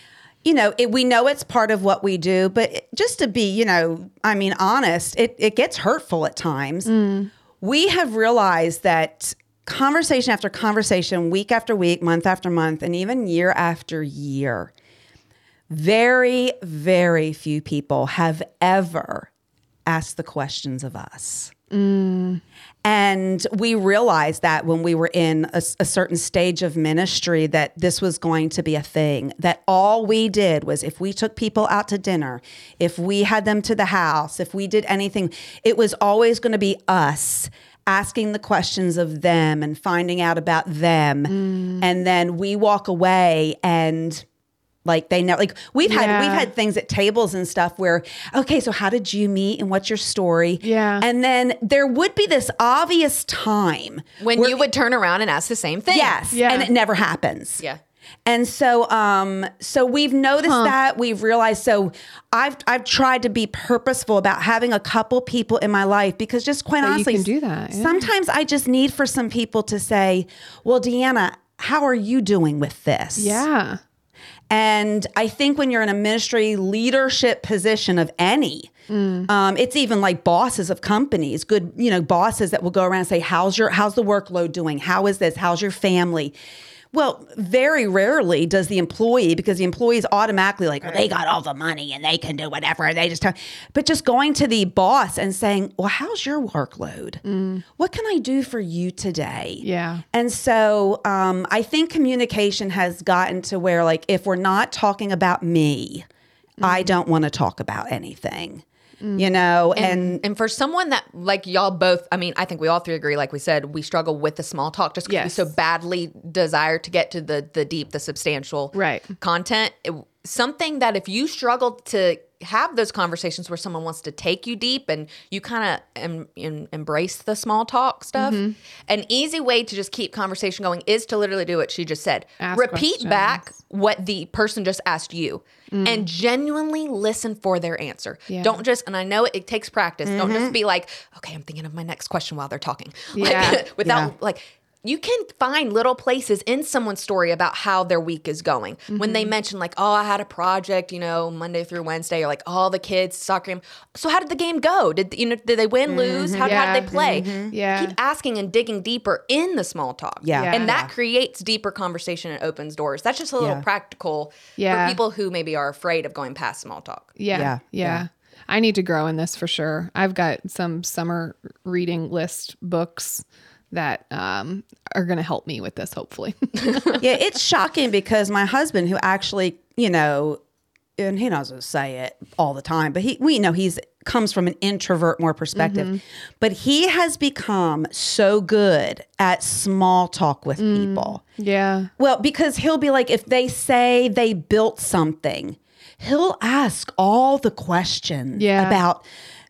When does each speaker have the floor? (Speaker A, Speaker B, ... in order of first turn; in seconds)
Speaker A: 0.4-6.9, 7.6-14.7, 15.7-19.3, 19.9-21.5, 22.8-44.2, 44.8-54.6, 55.9-57.6, 58.2-73.5, 74.5-78.7, 79.3-86.3, 86.9-97.2, 97.8-106.0, 106.6-108.6, 109.2-110.2, 140.1-140.5, 143.8-144.1, 155.9-157.5, 160.2-160.9, 167.3-168.0, 177.0-180.4, 181.0-191.2, 192.0-199.0
Speaker B: 6.9-7.3, 21.7-22.4, 41.3-41.9, 45.8-46.5, 50.6-51.0, 56.3-56.7, 60.4-60.7, 66.8-68.1, 73.2-73.8, 78.9-79.3, 97.2-97.7, 99.6-100.0, 106.6-106.9, 109.0-109.3, 115.1-115.5, 118.7-119.1, 128.2-128.6, 132.4-133.4, 135.7-136.1, 138.3-138.6, 143.2-143.7, 148.9-149.3, 156.4-157.9, 160.3-160.7, 164.6-165.0, 167.2-177.0, 185.6-186.0, 190.6-191.9, 198.4-198.8
Speaker C: 54.2-56.2, 109.8-167.1